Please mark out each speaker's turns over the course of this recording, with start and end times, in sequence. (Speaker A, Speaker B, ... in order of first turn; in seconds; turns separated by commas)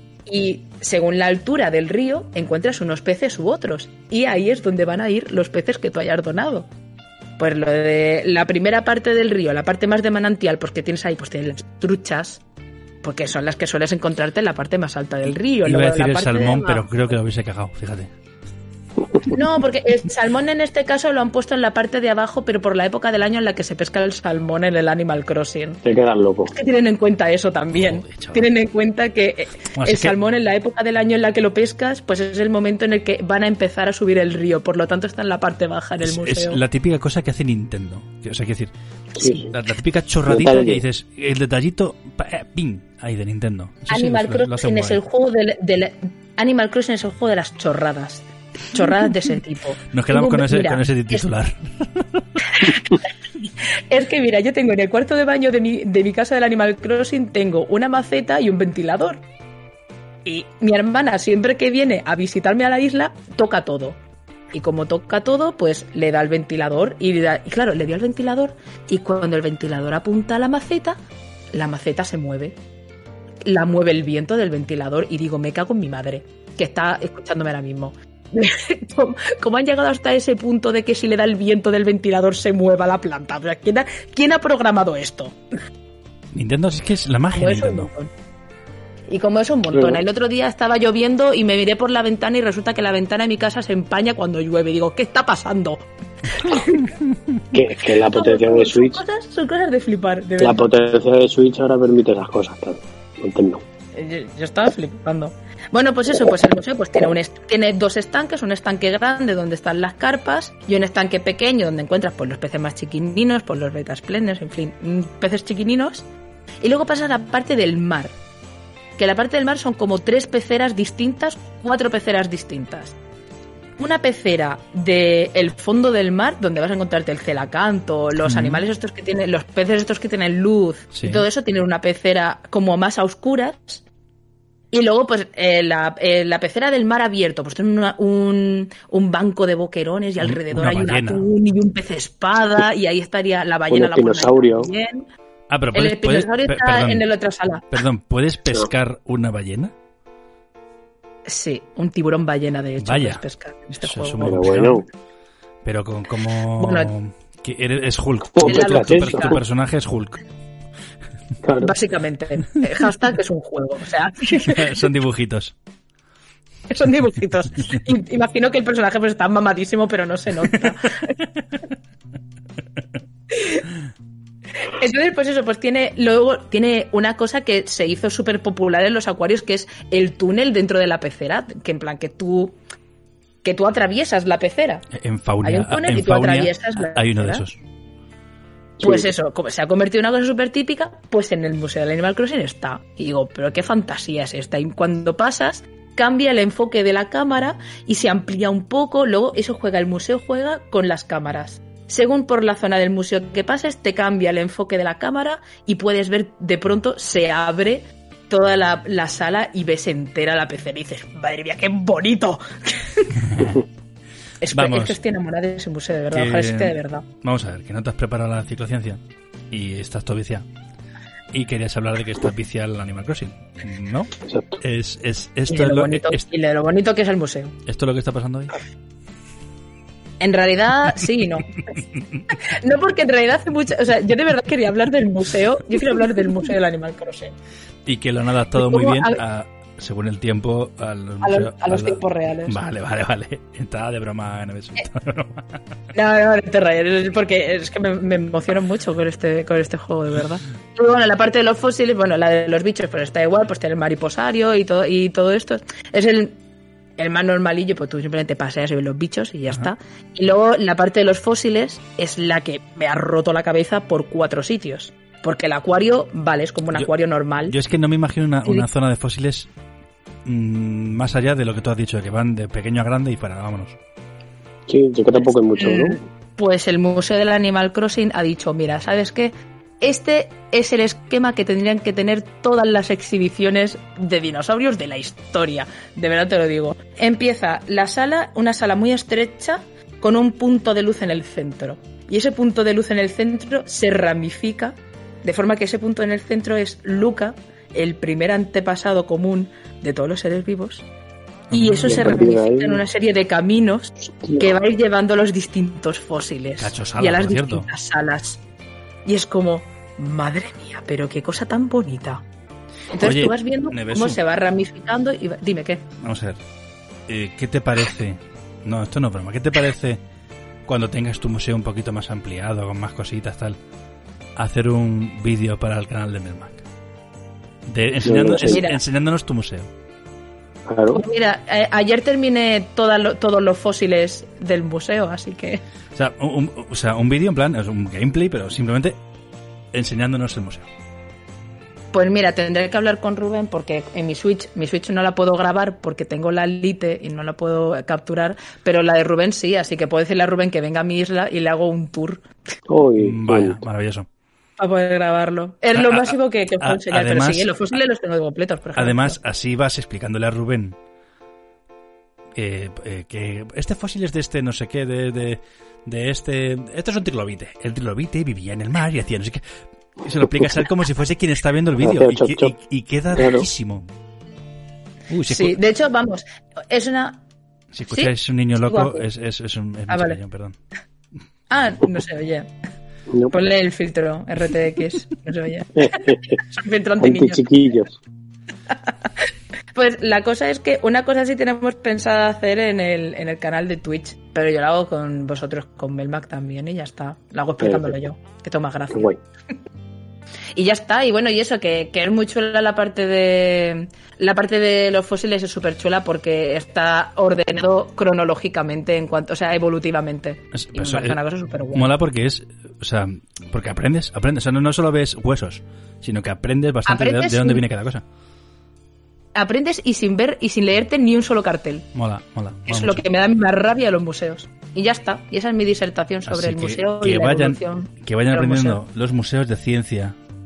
Speaker A: 0.3-6.7, Speaker A: 7.4-12.4, Speaker A: 13.0-16.9, Speaker B: 15.7-18.1, Speaker A: 19.3-25.8, Speaker C: 25.8-26.5, Speaker A: 26.5-36.6, Speaker B: 27.7-28.5, Speaker B: 29.8-30.1, Speaker B: 36.0-38.7, Speaker C: 39.2-39.5, Speaker B: 39.2-45.0, Speaker C: 40.3-40.8, Speaker A: 43.9-51.2, Speaker B: 49.9-52.2, Speaker A: 52.5-53.0, Speaker A: 53.9-59.2, Speaker A: 60.3-64.0, Speaker A: 64.5-71.0, Speaker A: 71.5-72.6, Speaker A: 73.5-85.4, Speaker B: 86.3-87.9, Speaker A: 87.3-88.1, Speaker A: 89.1-96.9, Speaker C: 89.7-90.0, Speaker C: 97.5-99.0, Speaker A: 98.0-100.7, Speaker C: 100.4-103.6, Speaker A: 103.9-116.1, Speaker A: 116.6-118.2, Speaker A: 119.0-123.0, Speaker A: 123.8-133.8, Speaker B: 128.2-128.6, Speaker B: 130.9-131.2, Speaker A: 134.7-145.1, Speaker B: 140.2-141.3, Speaker C: 143.7-144.7, Speaker B: 145.5-147.1, Speaker A: 145.7-147.7, Speaker B: 147.7-149.7, Speaker A: 151.3-154.3, Speaker B: 152.8-153.2, Speaker B: 153.8-154.8, Speaker C: 154.2-154.9, Speaker B: 155.7-160.2, Speaker A: 156.6-156.9, Speaker C: 158.4-159.4, Speaker A: 158.4-159.4, Speaker C: 161.4-161.7, Speaker A: 161.6-164.6, Speaker B: 164.3-165.5, Speaker A: 166.7-171.1, Speaker A: 173.3-173.6, Speaker A: 174.7-182.6, Speaker A: 183.4-184.8, Speaker B: 184.9-187.6, Speaker A: 185.4-187.4, Speaker C: 188.8-189.1, Speaker A: 188.8-213.2, Speaker B: 213.2-213.6, Speaker A: 214.4-217.1, Speaker B: 214.5-215.0, Speaker B: 216.1-219.0, Speaker B: 219.5-220.4, Speaker B: 221.3-226.3, Speaker C: 224.3-224.6, Speaker A: 225.5-227.6, Speaker B: 227.7-228.6, Speaker A: 230.2-231.6, Speaker A: 232.3-237.3, Speaker B: 237.9-245.5, Speaker A: 238.6-239.2, Speaker A: 241.2-242.6, Speaker A: 245.9-256.4, Speaker A: 257.0-267.6, Speaker B: 267.5-269.5, Speaker B: 270.2-273.8, Speaker C: 274.7-276.0, Speaker A: 275.6-300.9, Speaker B: 301.5-302.2, Speaker A: 301.5-308.4, Speaker C: 301.8-302.8, Speaker C: 304.2-304.6, Speaker B: 306.6-307.7, Speaker A: 309.1-312.2, Speaker A: 312.9-315.9, Speaker B: 313.0-314.2, Speaker B: 316.0-316.4, Speaker B: 317.1-320.0, Speaker B: 320.7-323.6, Speaker B: 324.4-326.6, Speaker B: 327.7-329.7, Speaker C: 328.0-328.6, Speaker A: 328.4-328.8, Speaker C: 330.7-331.0, Speaker A: 330.9-335.6, Speaker B: 335.9-339.0, Speaker B: 339.7-340.7, Speaker A: 341.9-352.2, Speaker C: 352.7-353.6, Speaker B: 353.0-354.1, Speaker A: 354.6-359.2, Speaker B: 355.8-357.5, Speaker B: 358.8-360.8, Speaker B: 362.4-369.4, Speaker B: 370.0-373.9, Speaker C: 371.8-372.5, Speaker C: 373.1-373.5, Speaker B: 375.1-375.6, Speaker A: 375.3-377.2, Speaker B: 377.7-380.6, Speaker A: 377.9-379.0, Speaker A: 379.9-380.2, Speaker A: 381.5-382.5, Speaker A: 383.3-387.4, Speaker C: 385.8-386.4, Speaker C: 387.0-388.0, Speaker A: 389.7-399.1, Speaker C: 397.6-398.0, Speaker C: 398.9-399.2, Speaker A: 400.6-411.9, Speaker B: 410.5-411.2, Speaker B: 411.7-418.0, Speaker A: 416.9-417.6, Speaker A: 419.4-421.9, Speaker B: 421.9-423.1, Speaker A: 422.7-428.8, Speaker B: 426.3-430.1